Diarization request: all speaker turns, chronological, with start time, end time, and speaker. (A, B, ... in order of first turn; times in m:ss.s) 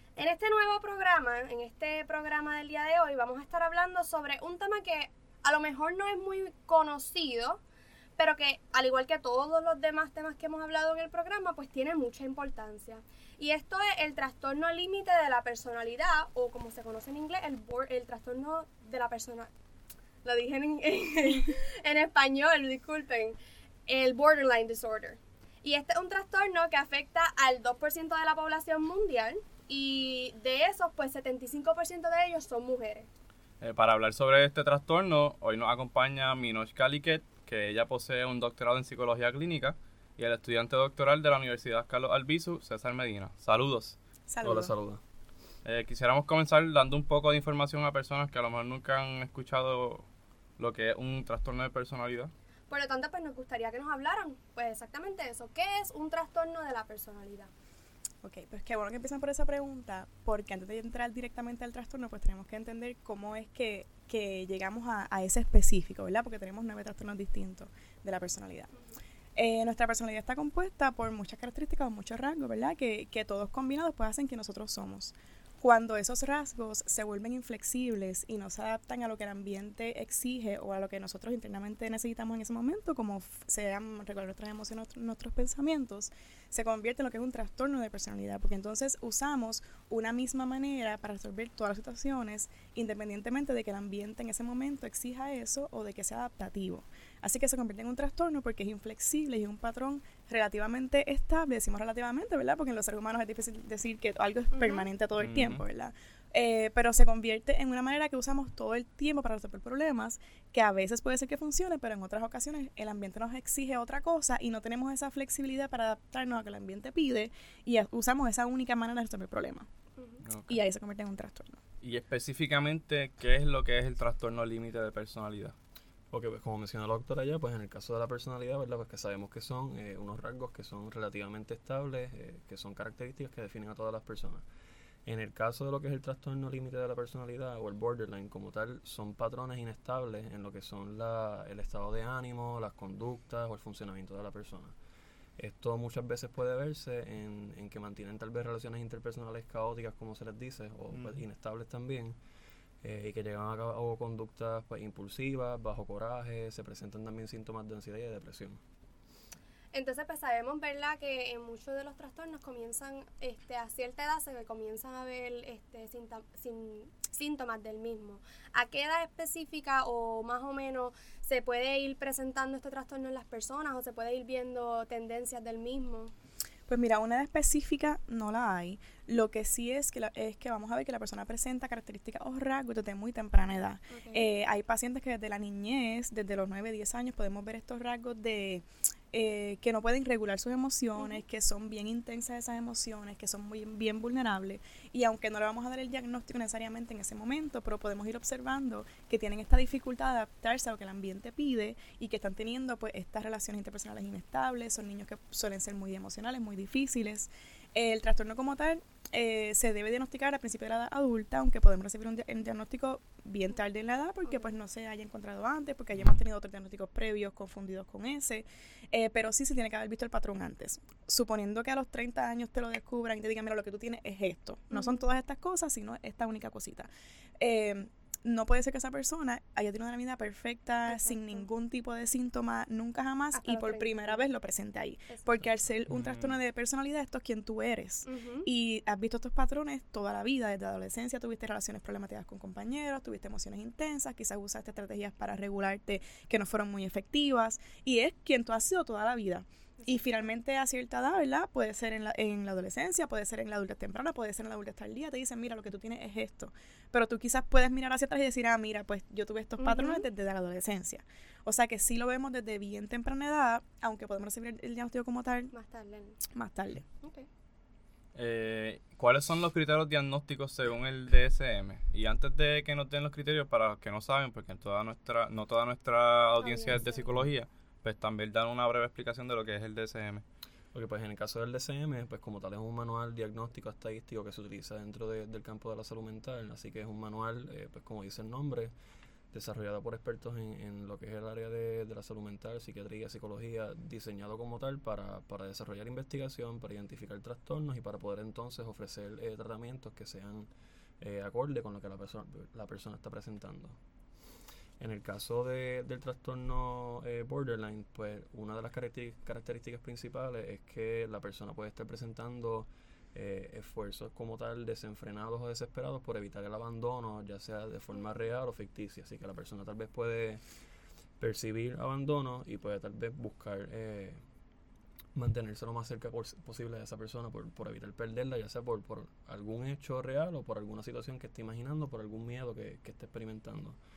0:00.2-0:07.6 A
0:08.2-0:19.5 A
0:20.2-0:33.1 A
0:33.6-0:44.0 B
0:44.3-0:44.7 C
0:44.4-0:45.0 D
0:45.6-0:50.0 B
0:50.6-0:52.3 B
0:52.7-0:57.5 A
0:58.2-1:08.7 C
1:09.3-1:59.7 C
1:44.5-1:44.8 A
1:45.2-1:45.6 B
2:00.0-2:00.2 A
2:00.2-2:00.6 B
2:00.5-2:01.6 C
2:01.8-2:05.6 B
2:06.1-2:14.4 D
2:15.0-2:24.8 D
2:25.4-2:32.2 D
2:30.9-2:31.2 B
2:32.8-2:38.6 D
2:39.7-2:56.1 A
2:56.7-3:46.9 C
3:03.9-3:04.3 A
3:47.4-4:25.5 C
3:50.9-3:51.4 A
3:53.3-3:54.2 A
3:55.9-3:56.3 B
3:58.1-3:58.5 A
4:09.8-4:10.1 A
4:19.6-4:20.0 A
4:25.5-4:26.2 A
4:26.3-4:26.8 C
4:27.0-4:27.3 A
4:28.1-4:40.2 B
4:36.4-4:37.1 A
4:40.7-4:48.7 D
4:49.3-5:03.8 D
5:04.8-5:20.4 D
5:21.2-5:24.2 D
5:25.1-5:33.8 D